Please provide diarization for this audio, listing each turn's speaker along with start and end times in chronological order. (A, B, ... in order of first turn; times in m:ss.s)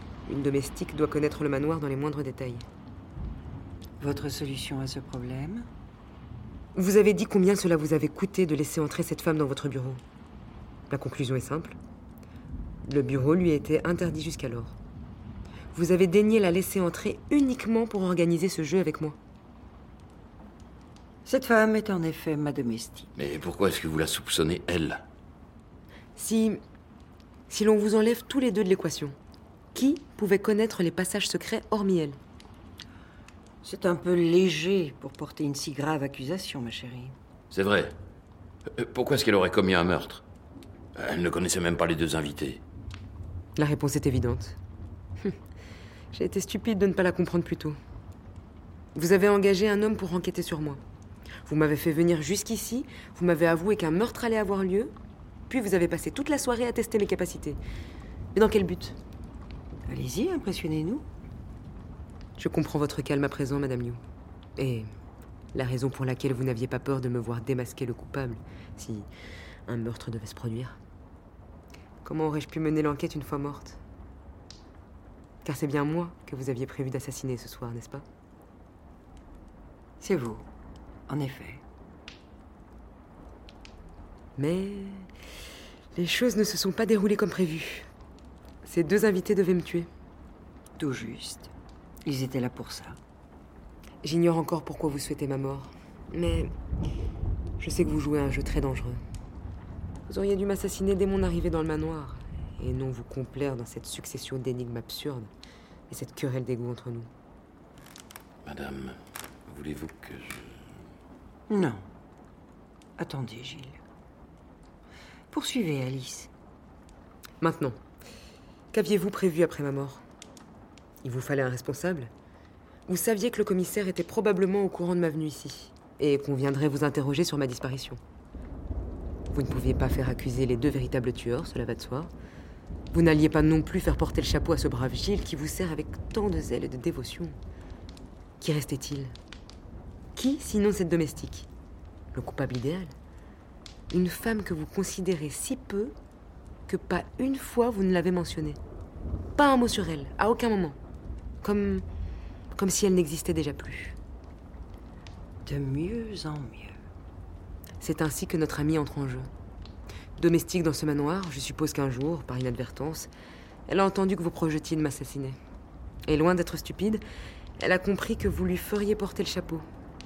0:00.2-0:02.6 A
0:04.0-0:05.7 B
0:06.7-0:10.0 A
0:10.9-0:11.8 A
0:12.8-0:14.8 A
0:15.7-0:19.2 A
0:21.2-0:23.1 B
0:23.2-0:25.0 C
0:26.2-0:26.6 A
0:27.5-0:29.2 A
0:29.7-0:32.2 A
0:33.6-0:37.1 B
0:37.5-0:37.9 C
0:38.7-0:40.2 C
0:40.9-0:42.6 C
0:43.6-0:44.6 A
0:46.1-0:47.8 A
0:48.9-0:50.8 A
0:51.4-0:54.9 A
0:55.5-0:57.6 A
0:58.3-0:59.0 A
0:59.9-1:01.0 B
1:02.4-1:04.0 A
1:04.6-1:04.9 A
1:05.5-1:09.1 A
1:09.7-1:10.8 A
1:12.0-1:13.8 A
1:15.4-1:18.0 A
1:20.0-1:20.5 B
1:21.1-1:21.6 B
1:24.4-1:25.1 A
1:26.0-1:27.9 A
1:28.6-1:29.9 A
1:30.8-1:31.5 B
1:32.0-1:33.0 B
1:34.0-1:36.5 A
1:37.6-1:39.0 A
1:40.1-1:45.3 A
1:45.9-1:47.1 A
1:48.4-1:50.7 C
1:51.5-1:51.8 B
1:53.0-1:53.8 B
1:55.3-1:56.3 B
1:57.4-1:57.8 A
1:58.7-2:00.0 A
2:01.0-2:02.1 A
2:02.9-2:08.0 A
2:09.3-2:12.1 A
2:12.9-2:17.4 A
2:18.4-2:19.1 A
2:20.2-2:21.5 A
2:22.1-2:22.9 A
2:23.9-2:25.9 A
2:26.7-2:28.6 A
2:29.4-2:30.8 A
2:31.4-2:31.8 A
2:32.5-2:34.0 A
2:35.4-2:36.8 B
2:37.8-2:39.3 A
2:40.2-2:43.1 A
2:43.7-2:45.4 A
2:46.0-2:47.0 A
2:47.6-2:49.6 A